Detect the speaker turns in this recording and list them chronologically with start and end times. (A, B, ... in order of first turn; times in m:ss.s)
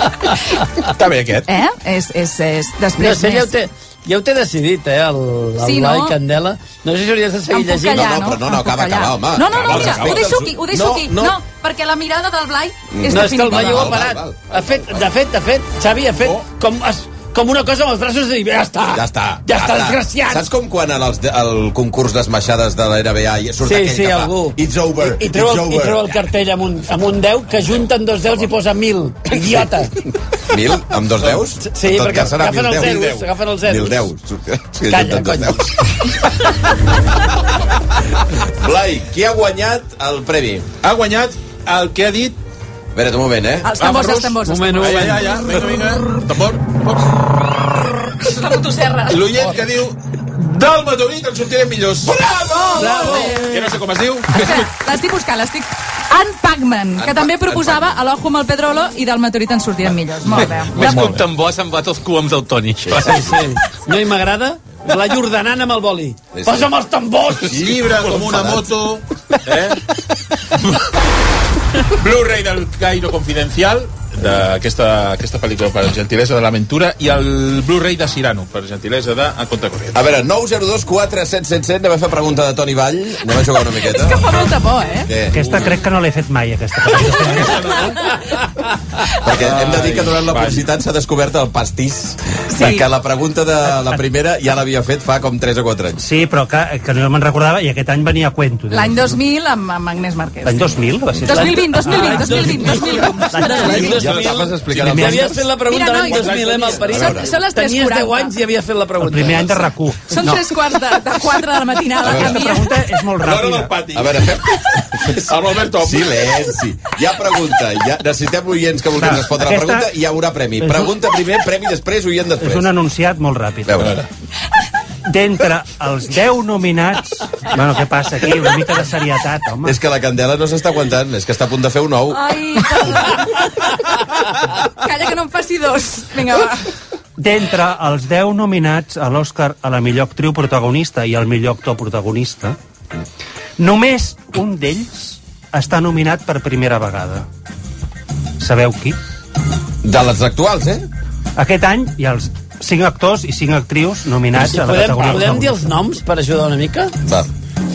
0:00.8-0:01.5 A
0:01.5-0:03.5 B
0:03.0-0:08.2 C
0:05.6-0:06.2 B
0:07.5-0:14.1 B
0:07.9-0:11.4 D
0:09.5-0:10.4 A
0:12.9-0:15.0 D
0:13.1-0:20.5 C
0:16.2-0:16.4 A
0:18.9-0:26.1 D
0:23.6-0:29.9 C
0:30.5-0:33.1 D
0:31.6-0:34.1 C
0:32.8-0:33.2 A
0:33.6-0:35.8 D
0:34.9-0:35.7 C
0:38.6-0:40.7 D
0:40.8-0:42.4 A
0:42.9-0:43.8 D
0:43.6-0:45.1 B
0:43.8-0:47.2 A
0:44.4-0:45.5 C
0:48.2-0:49.3 B
0:49.1-0:54.6 A
0:52.5-0:53.5 B
0:52.7-0:53.7 C
0:54.3-1:01.2 B
0:57.0-0:57.9 D
1:00.3-1:03.2 E
1:00.8-1:01.2 A
1:02.9-1:07.6 C
1:06.3-1:06.7 D
1:07.4-1:08.6 D
1:07.5-1:09.8 A
1:11.9-1:20.1 A
1:19.9-1:24.3 D
1:23.7-1:25.1 B
1:25.1-1:25.3 D
1:25.3-1:27.6 F
1:25.3-1:25.8 A
1:27.0-1:28.3 A
1:29.2-1:36.0 D
1:29.3-1:30.6 A
1:32.5-1:32.9 B
1:36.0-1:39.2 F
1:38.7-1:40.7 B
1:40.4-1:45.4 F
1:41.2-1:44.0 B
1:41.3-1:49.7 C
1:43.9-1:47.1 A
1:43.9-1:45.1 D
1:45.6-1:48.3 B
1:46.8-1:47.3 D
1:49.0-1:50.5 F
1:50.1-1:52.8 B
1:52.0-1:52.4 D
1:52.0-1:53.8 F
1:53.2-1:56.4 A
1:53.9-2:02.7 D
1:59.0-1:59.9 F
2:00.6-2:00.9 F
2:02.4-2:03.8 F
2:03.6-2:04.0 D
2:05.0-2:09.7 F
2:09.6-2:12.4 D
2:12.1-2:14.0 B
2:14.6-2:16.7 B
2:17.2-2:22.6 F
2:23.6-2:27.2 F
2:28.4-2:29.0 F
2:29.8-2:30.8 D
2:31.4-2:35.6 F
2:34.3-2:36.9 C